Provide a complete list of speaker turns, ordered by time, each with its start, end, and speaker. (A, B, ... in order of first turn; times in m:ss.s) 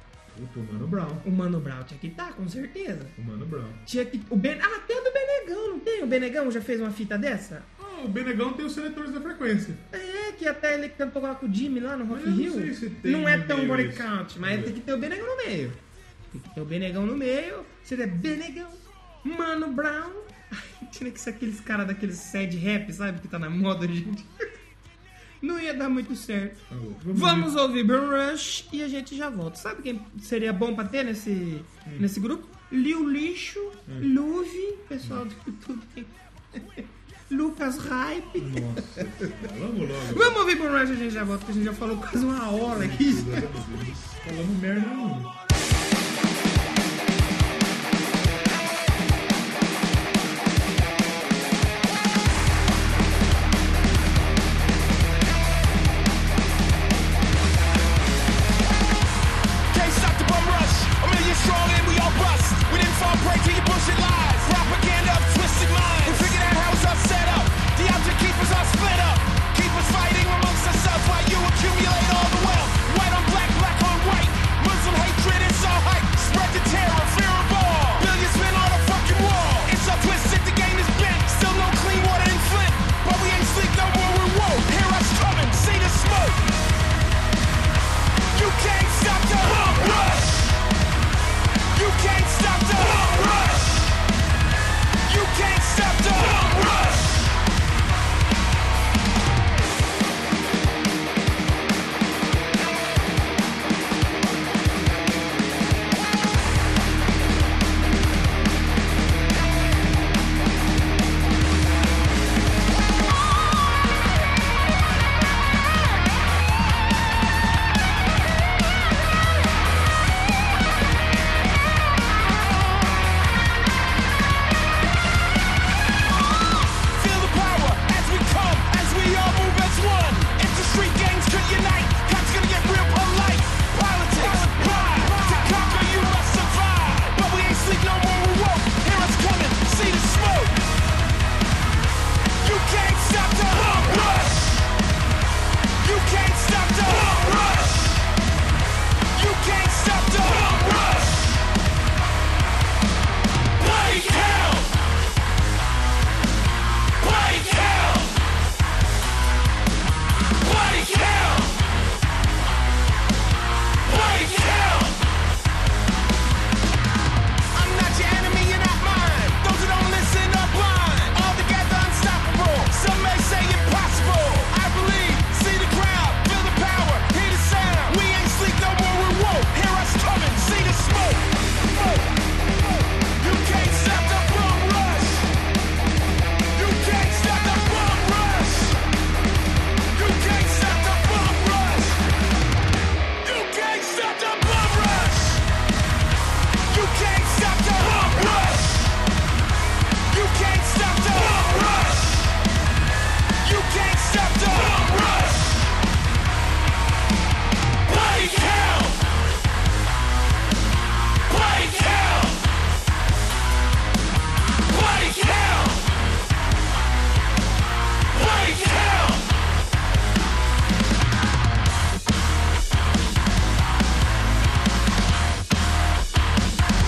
0:00.3-0:01.2 A
0:01.2-0:03.2 B
0:03.2-0:03.8 A
0:03.8-0:07.7 B
0:07.8-0:09.8 A
0:09.9-0:15.8 B
0:12.1-0:14.8 A
0:16.3-0:24.5 B
0:25.4-0:39.3 B
0:26.7-0:27.5 A
0:38.4-0:40.4 A
0:40.1-0:43.6 B
0:42.7-0:45.3 A
0:59.7-1:26.6 C
1:28.3-1:30.5 C
1:31.7-1:33.9 C
1:35.0-1:37.2 C
2:06.8-2:20.7 C
2:22.4-2:24.6 C
2:25.8-2:28.0 C
2:29.1-2:31.3 C
2:33.6-2:34.7 C
2:37.0-2:38.1 C
2:40.4-2:41.6 C
2:43.9-2:45.0 C
2:47.5-3:05.3 C
3:06.5-3:08.8 C
3:09.9-3:12.0 C
3:13.2-3:15.4 C
3:16.7-3:18.9 C
3:20.1-3:22.3 C
3:23.4-3:25.6 C
3:27.9-3:29.0 C
3:31.3-3:32.4 C
3:34.8-3:35.8 C
3:38.3-3:39.0 C